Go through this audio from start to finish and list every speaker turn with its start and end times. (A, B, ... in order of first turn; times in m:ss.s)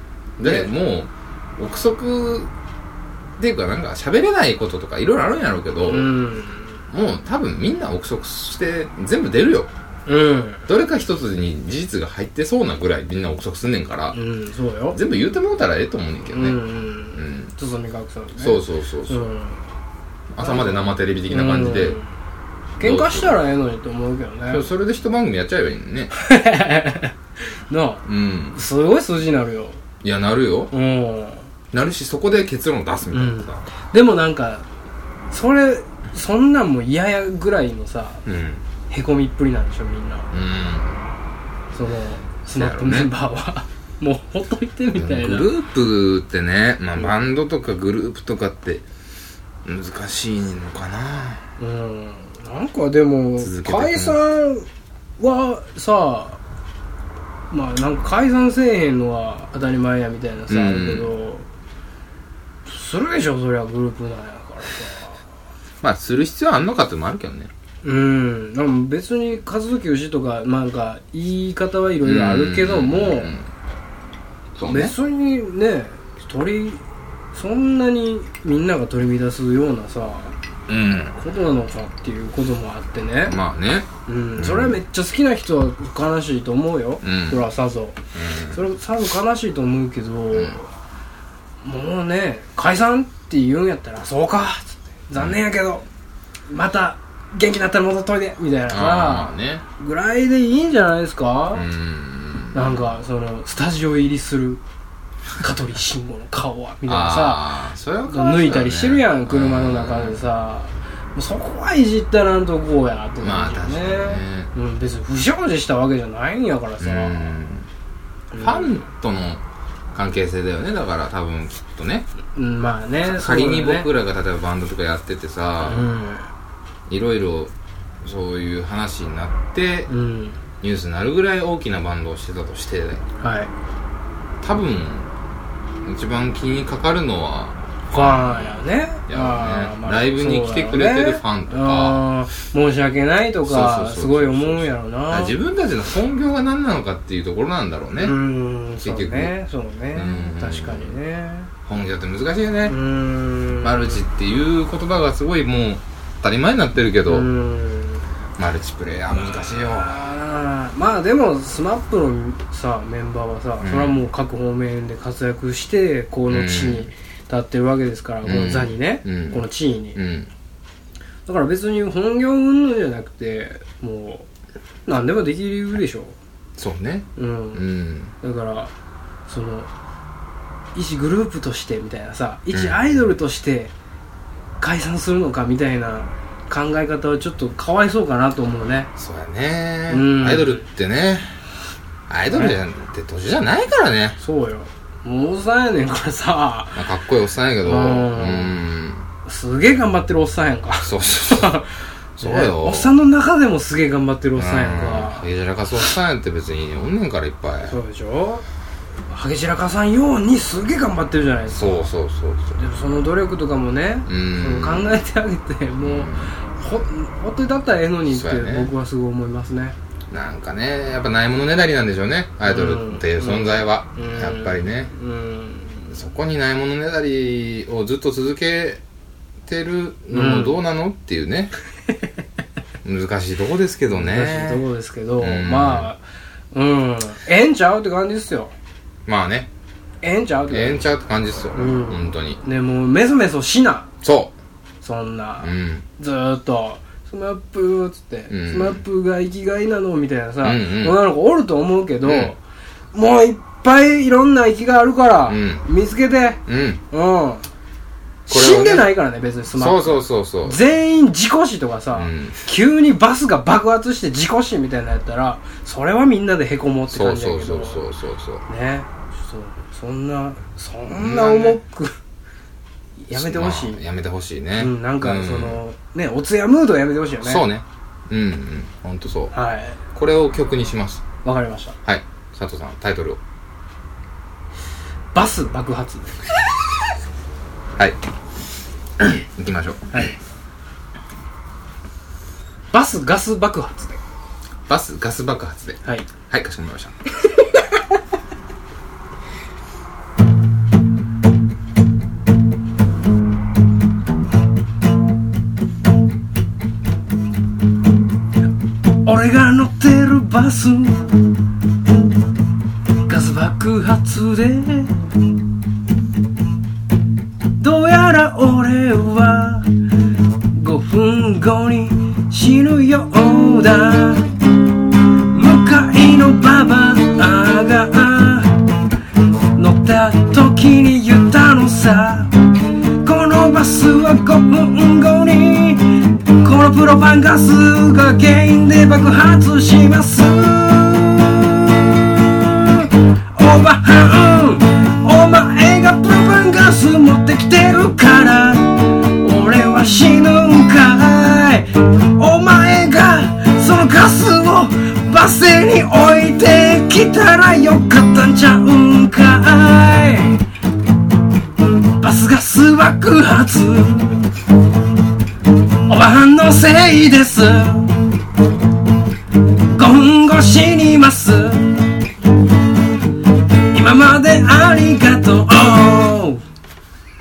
0:00.4-0:02.5 A
0:00.4-0:00.7 B
0:03.4-0:06.1 A
0:05.8-0:06.8 B
0:06.9-0:09.7 A
0:10.1-0:10.6 B
0:10.7-0:14.2 A
0:14.1-0:15.0 B
0:14.9-0:16.6 A
0:16.3-0:19.6 B
0:17.1-0:17.5 A
0:18.4-0:19.3 A
0:20.3-0:22.0 A
0:20.4-0:22.1 B
0:22.8-0:24.6 B
0:22.8-0:23.4 A
0:24.5-0:26.1 A
0:26.1-0:27.1 B
0:27.7-0:29.8 B
0:28.0-0:28.6 A
0:30.0-0:30.7 A
0:30.7-0:31.5 B
0:31.7-0:33.6 A
0:33.1-0:34.6 B
0:35.3-0:38.2 B
0:38.2-0:38.6 A
0:38.9-0:40.3 B
0:40.3-0:41.0 A
0:41.7-0:45.5 B
0:42.6-0:43.1 A
0:44.9-0:48.8 A
0:49.6-0:51.4 A
0:51.6-0:54.7 B
0:53.4-0:54.2 A
0:55.2-0:56.4 B
0:57.5-1:01.4 B
1:00.5-1:01.1 A
1:02.6-1:05.2 B
1:05.8-1:07.5 A
1:07.8-1:13.3 B
1:12.0-1:13.5 A
1:14.5-1:14.9 A
1:14.6-1:16.8 B
1:17.3-1:20.3 B
1:20.7-1:21.2 A
1:21.2-1:23.4 B
1:23.2-1:24.8 A
1:24.0-1:28.0 B
1:27.0-1:27.4 A
1:28.1-1:28.6 A
1:28.5-1:30.7 B
1:31.6-1:35.8 B
1:36.5-1:41.6 B
1:38.7-1:39.6 A
1:41.5-1:42.9 A
1:42.5-1:44.6 B
1:45.4-1:47.5 B
1:46.8-1:50.2 A
1:48.0-1:57.4 B
1:53.2-1:54.5 A
1:56.8-1:57.7 A
1:58.3-1:58.8 B
1:58.3-1:59.4 A
1:59.9-2:02.1 A
2:02.3-2:03.9 B
2:03.0-2:05.9 A
2:05.6-2:06.3 B
2:06.9-2:07.5 A
2:08.0-2:09.9 A
2:09.9-2:10.4 B
2:10.6-2:13.0 A
2:13.2-2:13.5 B
2:14.4-2:15.1 A
2:15.8-2:22.0 A
2:17.9-2:25.4 B
2:23.4-2:28.2 A
2:28.0-2:31.5 B
2:28.8-2:29.3 A
2:29.9-2:30.9 A
2:31.6-2:32.8 A
2:32.6-2:34.0 B
2:33.6-2:37.3 A
2:37.0-2:38.0 B
2:38.4-2:40.0 A
2:39.1-2:50.0 B
2:43.6-2:44.0 A
2:46.3-2:46.9 A
2:48.2-2:49.4 A
2:49.9-2:50.3 A
2:51.2-2:54.3 B
2:54.9-2:56.2 B
2:56.6-2:58.1 A
2:57.2-2:57.6 B
2:58.2-2:58.7 B
2:59.3-2:59.7 B
3:00.7-3:03.7 B
3:02.5-3:02.8 A
3:04.6-3:08.9 B
3:09.0-3:11.4 A
3:09.9-3:10.6 B
3:12.1-3:14.2 A
3:12.3-3:12.6 B
3:14.2-3:16.8 B
3:16.7-3:19.0 A
3:17.6-3:18.5 B
3:19.2-3:25.3 B
3:20.8-3:21.6 A
3:22.2-3:22.9 A
3:24.4-3:27.8 A
3:27.6-3:28.4 B
3:29.1-3:31.9 B
3:31.5-3:32.6 A
3:32.6-3:39.8 B
3:34.1-3:35.0 A
3:35.8-3:36.3 A
3:38.1-3:38.7 A
3:40.1-3:44.9 A
3:42.5-3:45.9 B
3:45.9-3:48.8 A
3:49.4-3:51.5 A
3:50.1-3:50.6 B
3:52.8-3:54.6 A
3:53.9-3:58.5 B
3:55.2-3:55.9 A
3:59.0-3:59.5 A
4:00.0-4:00.9 B
4:00.5-4:02.4 A
4:01.5-4:03.9 B
4:04.0-4:04.3 A
4:04.8-4:12.4 B
4:05.4-4:05.8 A
4:08.3-4:08.8 A
4:10.4-4:11.0 A
4:12.0-4:12.3 A
4:12.9-4:17.5 B
4:15.2-4:15.6 A
4:16.5-4:16.8 A
4:18.3-4:27.8 B
4:18.3-4:18.9 A
4:19.6-4:20.6 A
4:21.9-4:22.4 A
4:26.9-4:28.4 A
4:28.5-4:31.9 B
4:30.9-4:31.6 A
4:33.0-4:33.8 B
4:33.1-4:35.6 A
4:34.6-4:37.4 B
4:37.2-4:39.3 A
4:39.3-4:39.8 B
4:39.9-4:41.0 A
4:41.2-4:41.8 B
4:41.8-4:43.2 A
4:45.1-4:46.2 B
4:49.0-4:50.0 A
4:52.7-4:54.0 B
4:54.7-4:56.9 A
4:55.8-4:56.1 B
5:09.0-5:11.2 B
5:13.0-5:15.0 B
5:17.6-5:19.7 B
5:20.5-5:24.3 B
5:25.3-5:28.6 B
5:29.5-5:32.4 B
5:33.0-6:00.4 B
6:02.0-6:04.2 B
6:05.9-6:08.0 B
6:09.7-6:11.8 B
6:13.7-6:16.4 B